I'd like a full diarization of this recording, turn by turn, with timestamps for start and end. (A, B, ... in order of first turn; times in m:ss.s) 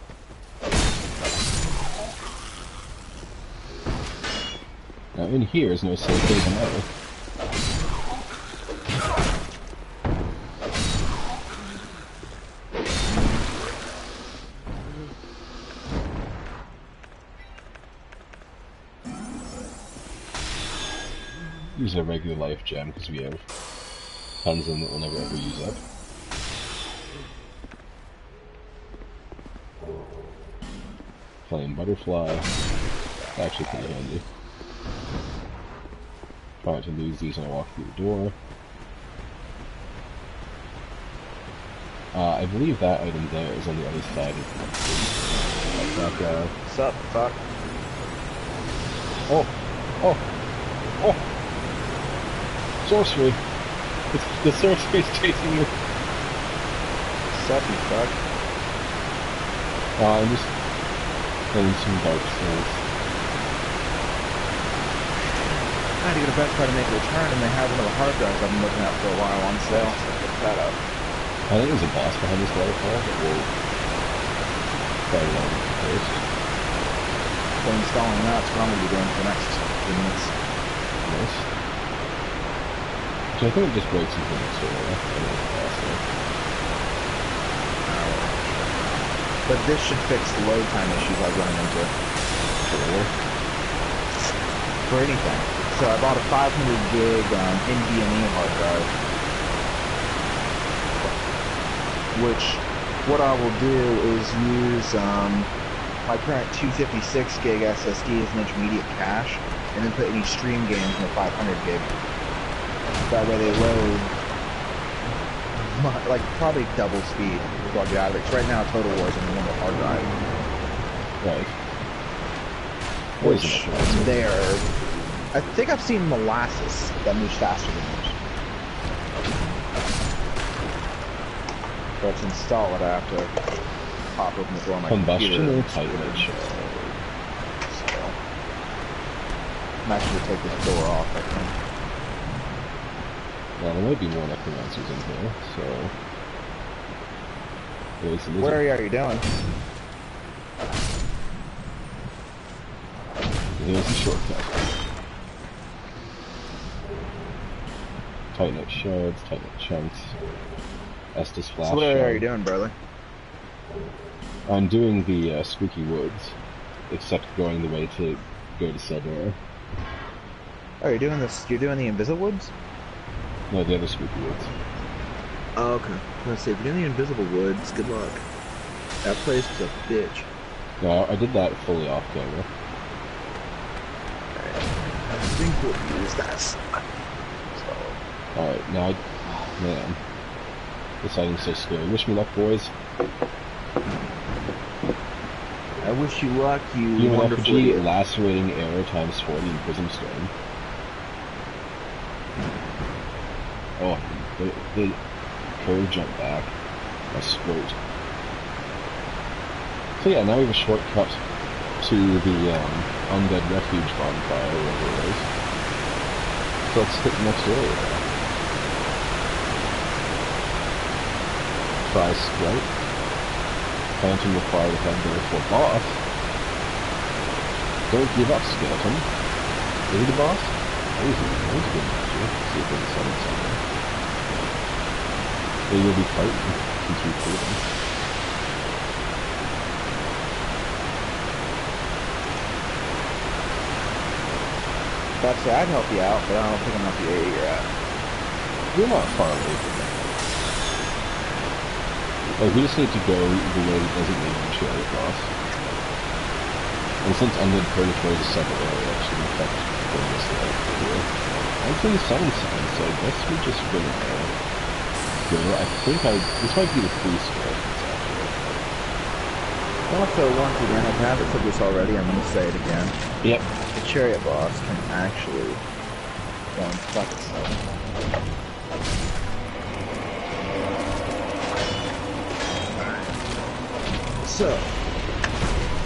0:05.2-0:06.9 A
0:21.7-0:23.4 A
0:24.4-0:25.8 A
0:31.4-0:32.5 A
0:33.4-0:34.2 A
0:36.6-0:38.3 A
0:42.1-0:46.5 A
0:46.6-0:47.4 B
0:49.3-0:50.2 A
0:52.8-0:53.4 A
0:54.1-0:55.7 A
0:57.3-0:58.2 B
1:00.0-1:00.5 A
1:01.5-1:02.8 A
1:06.0-1:10.8 B
1:09.7-1:10.0 A
1:11.5-1:13.5 A
1:15.1-1:16.2 A
1:17.6-1:20.3 B
1:21.0-1:21.5 A
1:23.3-1:26.0 A
1:27.8-1:28.6 B
1:29.4-1:31.9 B
1:32.6-1:33.1 A
1:34.8-1:38.9 B
1:42.1-1:45.5 B
1:46.0-1:51.9 B
1:53.0-1:54.2 B
1:55.6-2:00.2 B
2:01.2-2:01.5 A
2:03.2-2:04.7 B
2:03.2-2:04.2 A
2:05.3-2:08.2 B
2:12.0-2:13.3 B
2:14.1-2:16.3 B
2:14.8-2:17.0 A
2:17.7-2:18.2 B
2:19.8-2:21.6 B
2:23.6-2:25.9 A
2:28.0-2:28.6 A
2:28.4-2:29.3 B
2:33.6-2:34.6 A
2:38.3-2:40.2 A
2:41.1-2:42.2 A
2:41.6-2:42.7 B
2:44.5-2:46.4 A
2:46.9-2:49.4 A
2:50.8-2:52.5 B
2:53.5-2:54.5 A
2:55.6-2:58.2 B
2:59.0-3:00.3 B
3:00.8-3:02.5 A
3:04.3-3:06.8 B
3:07.4-3:08.0 B
3:08.3-3:10.0 A
3:11.0-3:12.7 A
3:15.8-3:17.9 B
3:17.0-3:20.3 A
3:23.8-3:26.5 A
3:27.1-3:27.8 A
3:30.0-3:31.2 A
3:31.8-3:35.3 A
3:36.7-3:38.1 A
3:41.8-3:42.7 A
3:44.0-3:46.0 A
3:47.9-3:49.1 A
3:49.9-3:53.6 A
3:55.7-3:57.6 A
4:05.2-4:07.7 B
4:08.7-4:10.0 A
4:12.4-4:15.3 A
4:17.0-4:21.1 A
4:21.6-4:24.3 A
4:25.3-4:28.4 A
4:29.9-4:33.0 B
4:33.7-4:35.6 B
4:36.5-4:37.5 B
4:44.2-4:44.8 B